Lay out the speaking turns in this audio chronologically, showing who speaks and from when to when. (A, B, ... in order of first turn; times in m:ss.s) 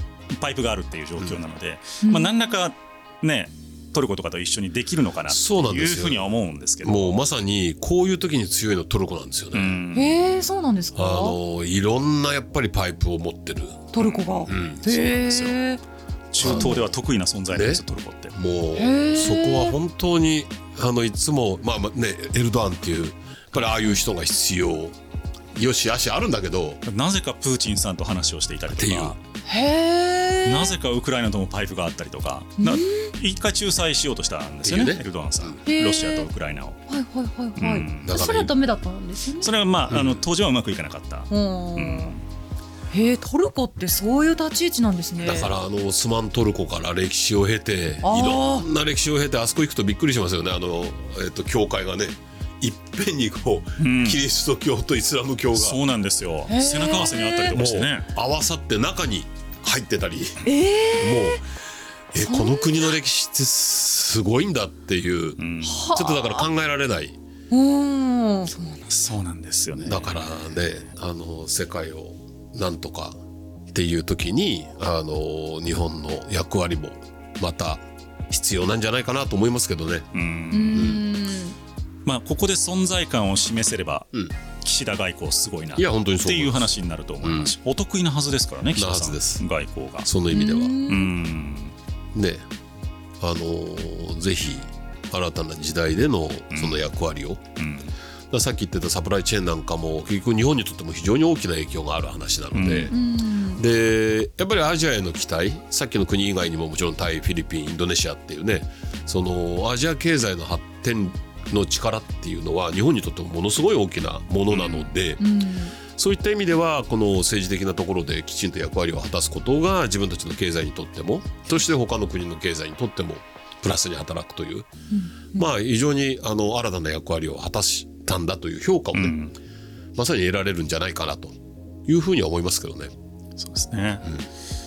0:00.3-0:07.2 A
0:02.0-0:02.4 B
0:05.3-0:06.3 C
0:06.8-0:09.8 C
0:09.5-0:10.3 A
0:09.9-0:11.4 B
0:10.9-0:15.6 C
0:13.9-0:15.8 B
0:14.0-0:14.5 A
0:16.3-0:18.3 A
0:16.4-0:16.8 B
0:16.4-0:16.9 C
0:17.5-0:17.8 C
0:18.3-0:24.9 C
0:18.7-0:19.8 B
0:25.5-0:26.8 C
0:26.8-0:29.2 A
0:28.7-0:29.2 C
0:29.4-0:30.7 B
0:30.4-0:36.8 A
0:32.6-0:33.1 B
0:34.6-0:35.6 C
0:35.6-0:36.3 B
0:36.9-0:39.5 B
0:37.6-0:38.2 A
0:38.0-0:38.5 C
0:39.4-0:42.2 A
0:39.9-0:40.2 C
0:41.3-0:42.1 B
0:42.9-0:45.5 B
0:45.2-0:55.8 C
0:48.0-0:48.7 B
0:53.8-0:54.2 A
0:55.5-0:58.1 A
0:56.5-0:57.6 B
0:56.9-1:01.4 C
1:00.4-1:01.4 B
1:02.1-1:07.2 C
1:02.2-1:02.8 B
1:05.4-1:05.9 A
1:05.6-1:06.4 B
1:07.5-1:08.9 B
1:08.9-1:10.1 A
1:09.8-1:13.2 C
1:13.7-1:20.1 C
1:20.1-1:21.0 A
1:20.5-1:21.6 B
1:20.7-1:21.0 C
1:22.0-1:30.1 A
1:25.8-1:27.5 C
1:28.7-1:29.4 C
1:30.0-1:30.8 C
1:30.3-1:31.1 B
1:30.9-1:31.7 A
1:32.1-1:32.4 C
1:33.2-1:37.4 C
1:36.5-1:36.8 A
1:37.6-1:37.9 A
1:38.3-1:43.0 C
1:42.5-1:42.9 A
1:42.9-1:43.6 B
1:43.5-1:55.3 C
1:54.5-1:54.9 A
1:55.2-1:55.8 B
1:55.8-2:04.7 C
2:04.9-2:05.5 B
2:05.3-2:09.2 C
2:08.9-2:09.3 A
2:09.9-2:12.9 C
2:13.4-2:14.0 A